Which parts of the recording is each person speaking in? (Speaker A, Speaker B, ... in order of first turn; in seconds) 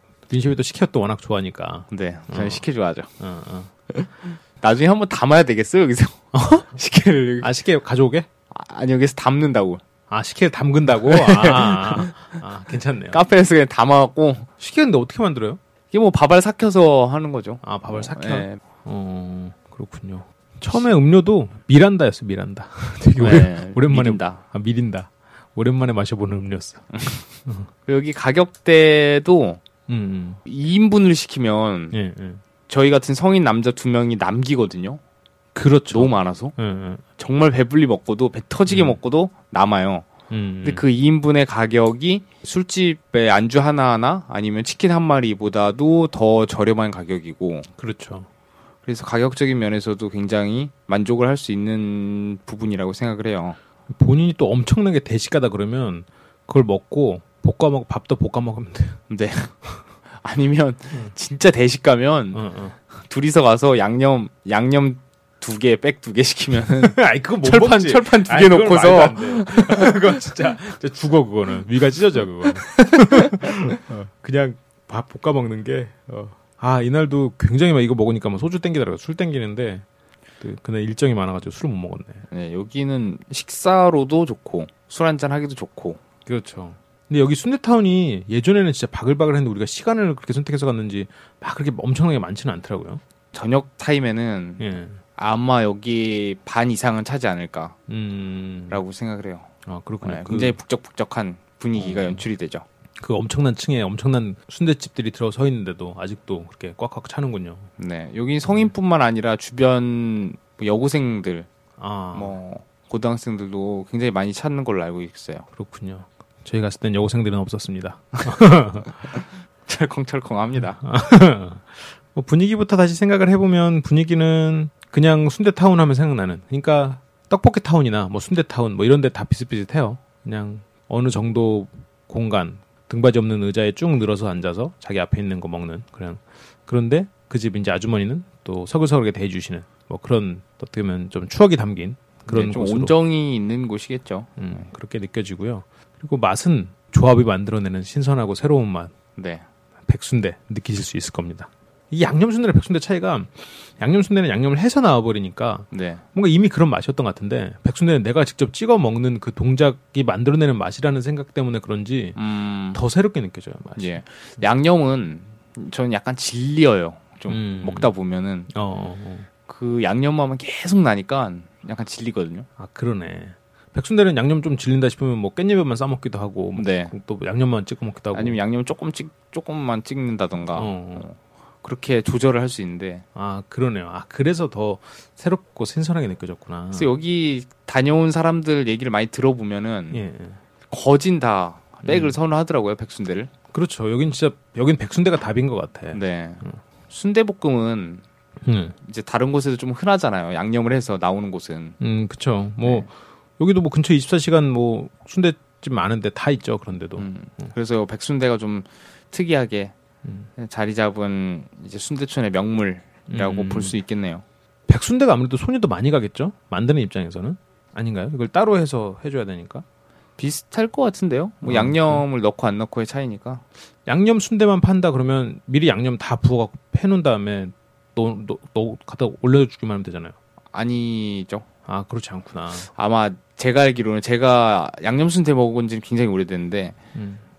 Speaker A: 0.3-2.6, 3.2-3.7, 6.3-6.8, 7.4-8.3, 10.1-13.2, 14.6-15.6, 17.6-27.7, 29.9-30.4, 31.9-32.4, 35.5-37.0, 38.7-39.0, 40.3-40.8, 47.8-48.3, 53.9-59.0, 62.3-62.8, 66.8-79.8, 80.4-82.2, 86.3-93.0, 94.6-95.0, 97.9-98.8, 99.7-100.6, 101.8-102.2, 103.0-107.7, 111.8-112.4, 115.5-119.1, 120.8-142.9, 144.4-148.9, 149.9-162.2, 162.7-164.0, 167.3-167.9, 168.5-169.3, 172.6-178.4, 180.5-181.1, 183.2-186.9, 189.9-190.4, 191.8-192.2, 193.5-196.6, 198.4-198.8, 201.8-207.5, 213.1-213.8, 214.7-219.6, 221.4-222.1, 223.9-230.1, 231.7-232.7, 236.9-237.2
Speaker B: 1.9-3.1, 3.9-7.5, 8.5-9.8, 10.9-12.4, 13.1-14.5, 15.9-18.6, 23.2-24.4, 27.9-29.6, 30.4-32.0, 32.7-35.0, 35.9-36.6, 37.2-40.1, 40.6-47.7, 48.8-53.6, 59.1-59.5, 60.2-70.3, 72.5-73.7, 82.3-86.0, 93.3-97.8, 98.7-99.5, 100.0-102.7, 107.8-111.5, 112.1-115.5, 119.1-120.8, 142.3-144.4, 149.2-149.4, 155.7-156.0, 162.2-162.8, 163.8-168.5, 169.4-172.5, 176.6-176.9, 178.1-183.0, 186.7-190.0, 190.7-193.3, 195.9-198.0, 198.8-201.8, 202.6-202.9, 207.0-209.7, 210.4-214.2, 220.2-223.4, 230.5-231.4, 232.7-236.8